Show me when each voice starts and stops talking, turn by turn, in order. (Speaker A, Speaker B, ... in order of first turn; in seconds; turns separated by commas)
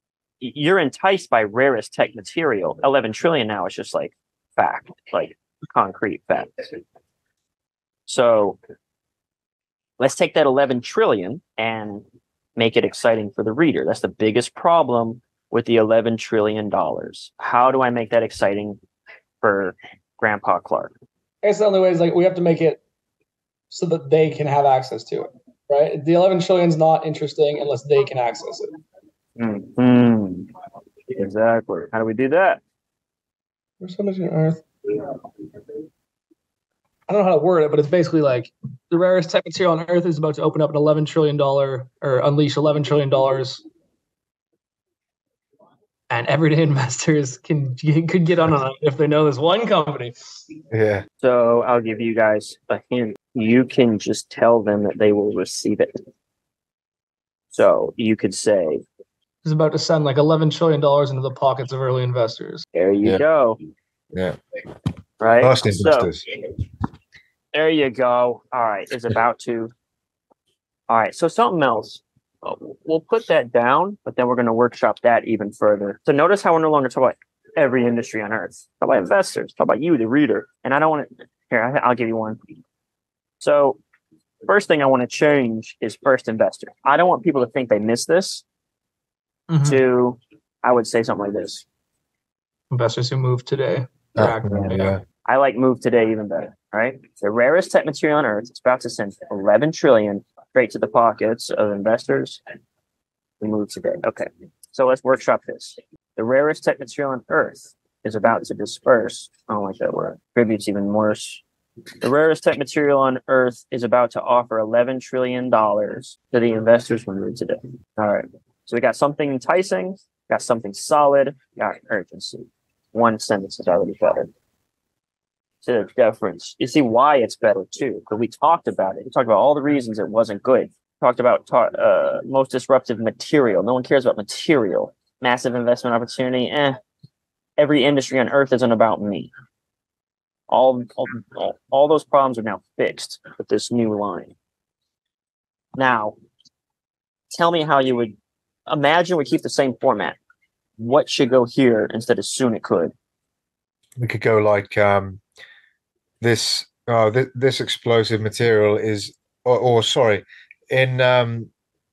Speaker A: 0.4-6.8, Speaker A: 8.1-8.6, Speaker A: 10.0-12.0, Speaker A: 12.6-18.8, Speaker A: 19.4-20.9, Speaker B: 21.4-22.8, Speaker B: 23.7-28.8, Speaker A: 29.4-30.5, Speaker A: 31.1-32.6, Speaker B: 33.8-34.6, Speaker B: 37.1-43.6, Speaker B: 46.1-50.1, Speaker C: 50.7-51.0, Speaker A: 51.2-55.9, Speaker A: 57.5-58.8, Speaker B: 59.4-62.6, Speaker A: 62.7-63.6, Speaker A: 65.2-66.1, Speaker C: 65.4-66.2, Speaker A: 67.5-69.7, Speaker A: 70.9-82.4, Speaker A: 83.4-83.8, Speaker A: 84.5-88.4, Speaker B: 89.5-89.8, Speaker A: 89.6-91.6, Speaker B: 92.7-94.9, Speaker C: 94.2-95.0, Speaker A: 95.2-102.4, Speaker A: 103.4-111.4, Speaker A: 112.0-124.3, Speaker A: 125.6-136.8, Speaker A: 137.6-139.3, Speaker A: 140.5-144.3, Speaker A: 145.8-146.2, Speaker A: 147.3-148.2, Speaker A: 148.7-150.2, Speaker A: 150.8-152.9, Speaker C: 154.0-155.2, Speaker C: 156.2-161.5